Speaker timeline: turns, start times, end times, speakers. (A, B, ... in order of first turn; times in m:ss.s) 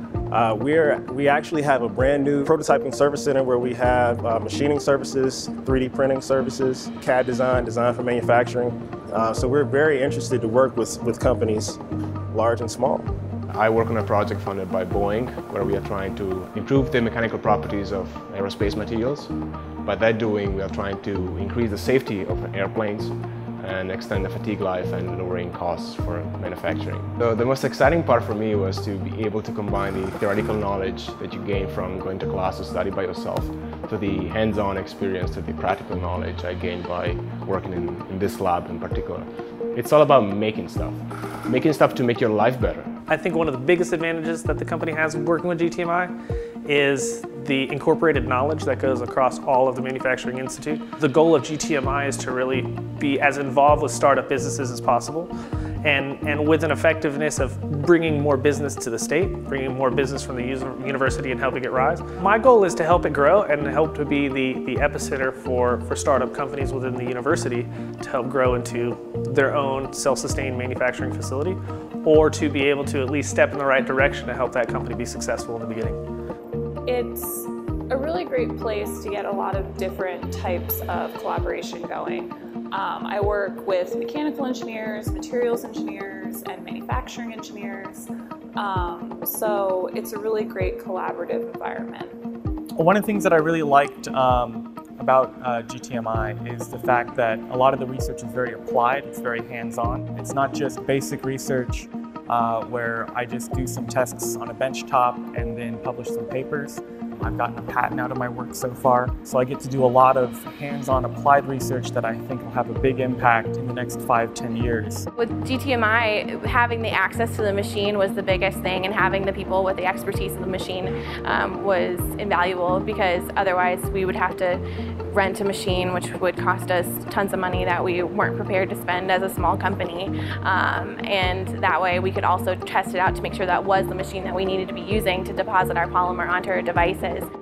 0:00.3-0:11.8 A
0:12.3-0:13.1 A
0:13.5-0:42.9 B
0:43.1-0:46.1 C
0:46.6-0:55.3 C
0:55.8-1:16.0 C
1:16.8-1:32.2 D
1:32.8-1:55.1 E
1:55.2-2:17.3 F